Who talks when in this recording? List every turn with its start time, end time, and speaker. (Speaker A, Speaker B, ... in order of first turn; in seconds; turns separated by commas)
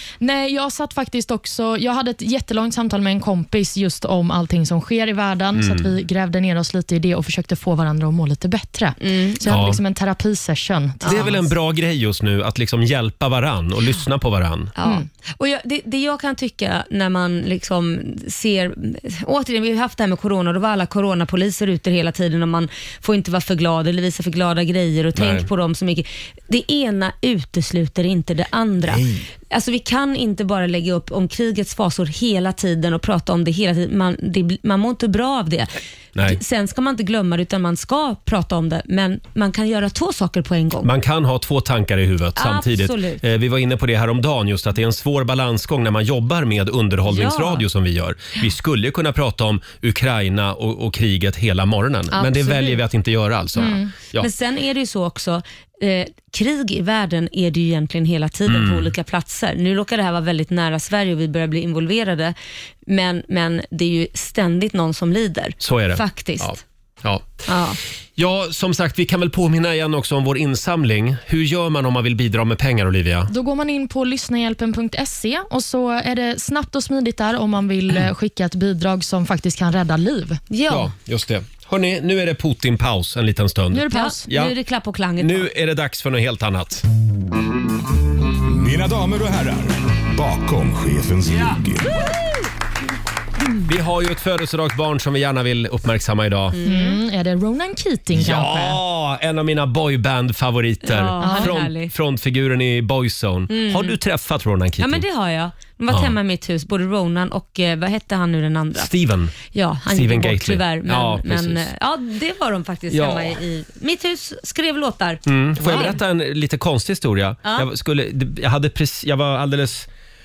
Speaker A: 0.2-11.5, Speaker B: 5.5-5.9, Speaker C: 9.0-9.4, Speaker B: 9.4-9.8, Speaker C: 11.0-11.3, Speaker B: 11.0-14.7, Speaker C: 14.8-40.9, Speaker B: 25.1-25.5, Speaker B: 28.9-29.3, Speaker B: 40.8-54.3, Speaker C: 42.4-43.2, Speaker C: 47.1-47.6, Speaker C: 52.1-52.8, Speaker A: 53.5-53.9, Speaker C: 54.2-62.3, Speaker B: 58.5-58.9, Speaker C: 62.9-66.5, Speaker B: 65.6-67.4, Speaker C: 67.5-67.8, Speaker B: 68.2-73.3, Speaker A: 73.3-80.4, Speaker C: 80.5-80.9, Speaker B: 80.7-84.5, Speaker A: 83.7-84.3, Speaker C: 83.9-85.5, Speaker B: 85.2-86.8, Speaker D: 88.5-92.0, Speaker B: 93.7-96.6, Speaker C: 96.5-97.0, Speaker A: 96.6-98.8, Speaker B: 98.1-105.0, Speaker C: 100.8-101.9, Speaker A: 101.2-101.5, Speaker C: 103.5-104.0, Speaker C: 104.8-108.9, Speaker B: 105.9-106.1, Speaker B: 108.7-109.3, Speaker C: 109.5-116.0, Speaker B: 109.9-111.7, Speaker B: 112.9-113.4, Speaker B: 115.2-119.9